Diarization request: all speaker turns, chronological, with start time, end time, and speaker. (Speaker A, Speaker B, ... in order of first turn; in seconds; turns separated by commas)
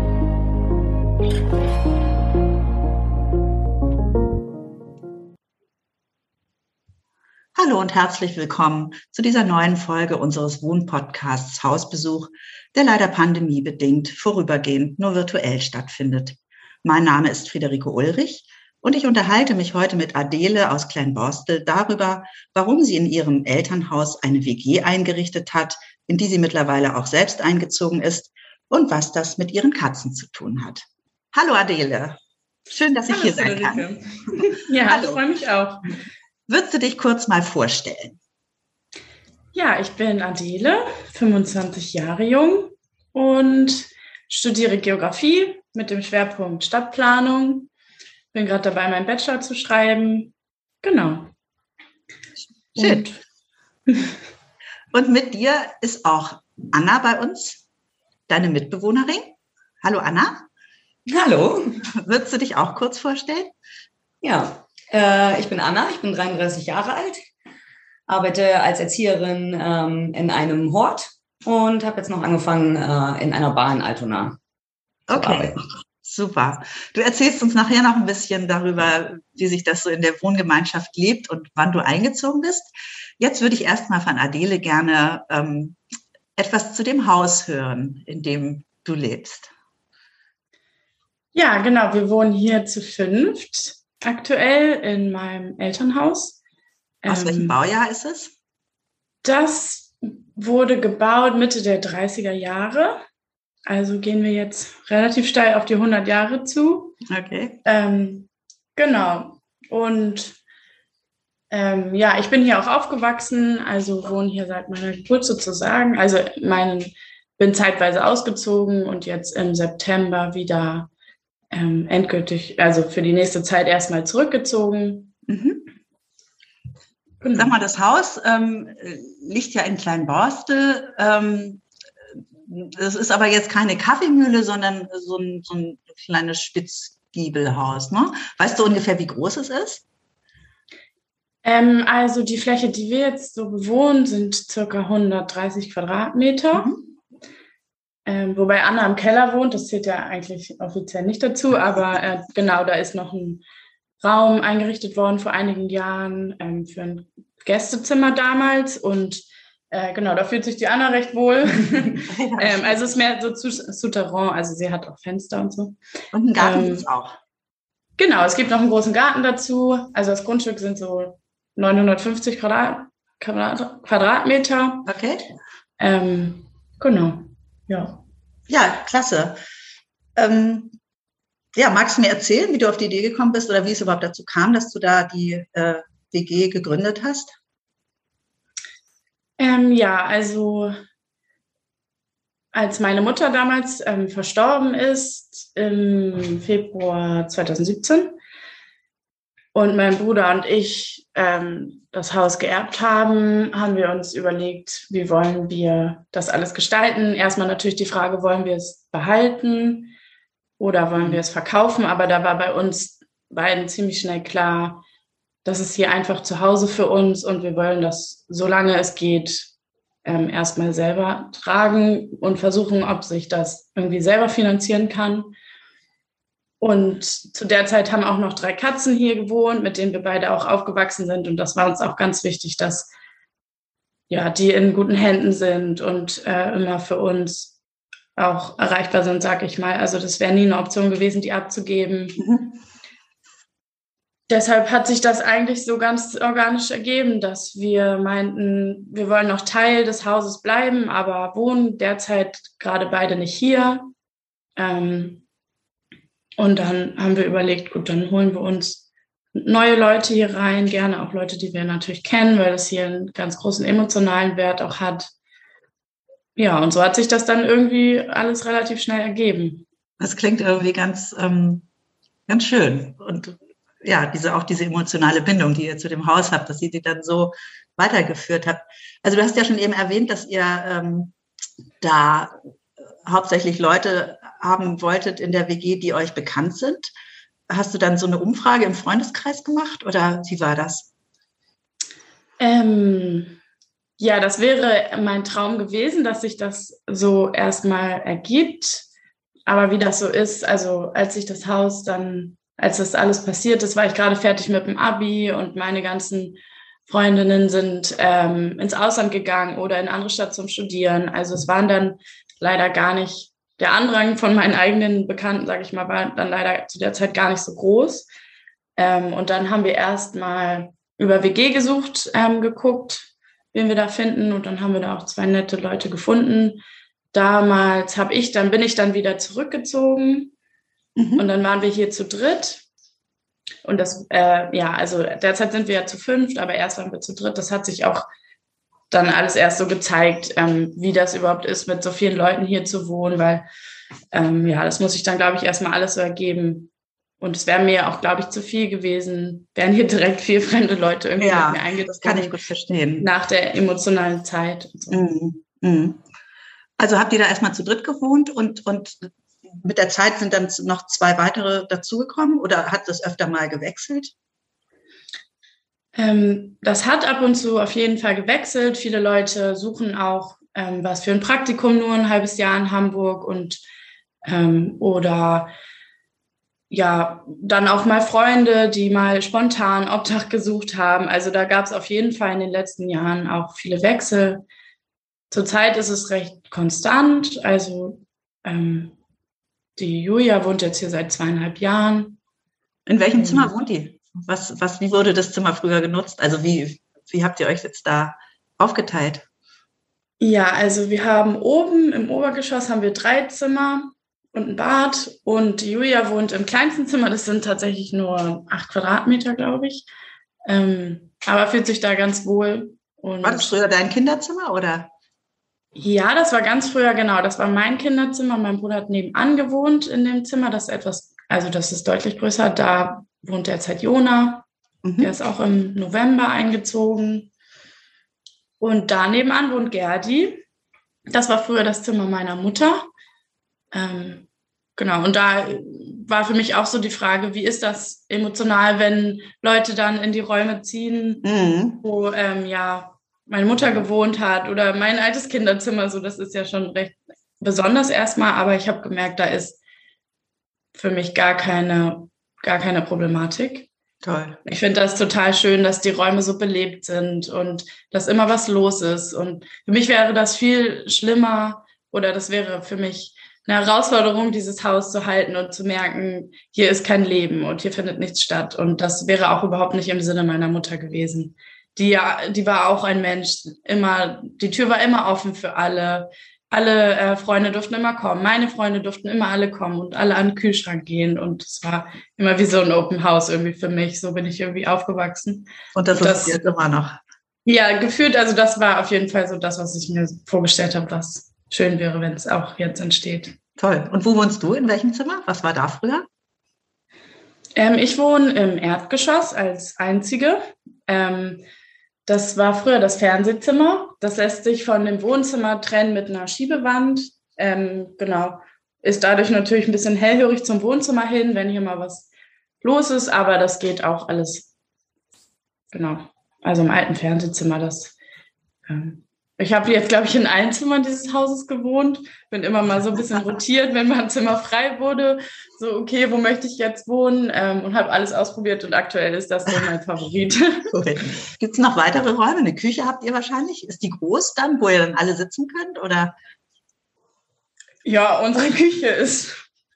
Speaker A: 7.5-32.2, Speaker A: 32.7-35.2, Speaker B: 33.1-35.9, Speaker A: 36.5-38.2, Speaker B: 39.5-47.7, Speaker B: 48.3-51.3, Speaker B: 52.8-53.2, Speaker A: 52.8-53.1, Speaker A: 54.9-57.6, Speaker A: 58.3-60.4, Speaker C: 61.1-61.8, Speaker A: 61.9-63.5, Speaker C: 64.2-67.2, Speaker C: 68.1-74.4, Speaker A: 75.1-85.8, Speaker C: 75.1-75.6, Speaker A: 86.3-89.5, Speaker B: 91.3-96.4, Speaker B: 97.0-97.6, Speaker A: 97.1-98.3, Speaker B: 99.2-103.0, Speaker B: 103.7-107.0, Speaker A: 107.1-107.6, Speaker B: 107.6-110.4, Speaker B: 111.5-120.9, Speaker B: 121.5-125.1, Speaker A: 125.3-125.6, Speaker B: 127.2-127.6, Speaker A: 127.3-131.6, Speaker A: 132.5-139.8, Speaker B: 141.4-146.7, Speaker A: 146.5-146.8, Speaker B: 148.1-153.4, Speaker B: 154.0-165.8, Speaker A: 162.0-162.9, Speaker A: 166.1-167.1, Speaker B: 166.4-166.8, Speaker B: 168.0-174.9, Speaker A: 174.8-175.2, Speaker B: 175.8-178.0, Speaker A: 178.5-179.4, Speaker A: 180.2-180.8, Speaker A: 181.5-187.3, Speaker B: 189.4-190.8, Speaker B: 192.5-198.2, Speaker B: 199.5-209.9, Speaker B: 210.6-214.8, Speaker B: 215.4-219.5, Speaker B: 220.0-225.3, Speaker B: 226.6-232.9, Speaker B: 234.1-237.5, Speaker B: 238.2-242.2, Speaker A: 242.2-242.5, Speaker B: 244.3-253.9, Speaker B: 254.6-255.2, Speaker B: 256.4-258.8, Speaker B: 259.3-265.1, Speaker B: 266.4-269.6, Speaker A: 270.0-271.7, Speaker A: 272.3-281.1, Speaker A: 281.8-282.4, Speaker A: 283.0-286.9, Speaker A: 287.5-290.9, Speaker B: 292.4-293.4, Speaker B: 294.0-298.9, Speaker B: 299.4-318.1, Speaker B: 318.8-326.6, Speaker B: 327.1-330.3, Speaker A: 330.9-331.2, Speaker B: 331.2-332.6, Speaker B: 333.6-338.1, Speaker B: 338.9-343.4, Speaker B: 344.1-352.4, Speaker A: 351.2-353.1, Speaker B: 353.0-355.0, Speaker A: 354.9-356.0, Speaker A: 356.8-364.1, Speaker B: 365.9-373.6, Speaker B: 374.2-375.5, Speaker B: 376.7-384.4, Speaker B: 385.3-388.9, Speaker B: 389.8-392.2, Speaker A: 392.9-399.2, Speaker B: 393.2-393.5, Speaker B: 400.2-409.9, Speaker B: 410.4-413.6, Speaker A: 413.2-414.9, Speaker B: 415.8-424.4, Speaker A: 424.8-425.1, Speaker B: 425.0-427.3, Speaker B: 428.6-430.4, Speaker B: 431.1-432.9, Speaker B: 433.7-434.2, Speaker B: 434.8-441.2, Speaker A: 441.2-441.8, Speaker B: 441.8-449.6, Speaker B: 450.7-453.7, Speaker A: 454.0-454.4, Speaker B: 454.4-486.4, Speaker A: 485.7-487.0, Speaker B: 487.4-493.4, Speaker A: 493.6-496.1, Speaker B: 497.6-501.4, Speaker B: 502.1-512.1, Speaker B: 512.6-514.5, Speaker B: 515.7-517.9, Speaker B: 518.6-530.7, Speaker A: 530.7-536.1, Speaker B: 537.8-539.4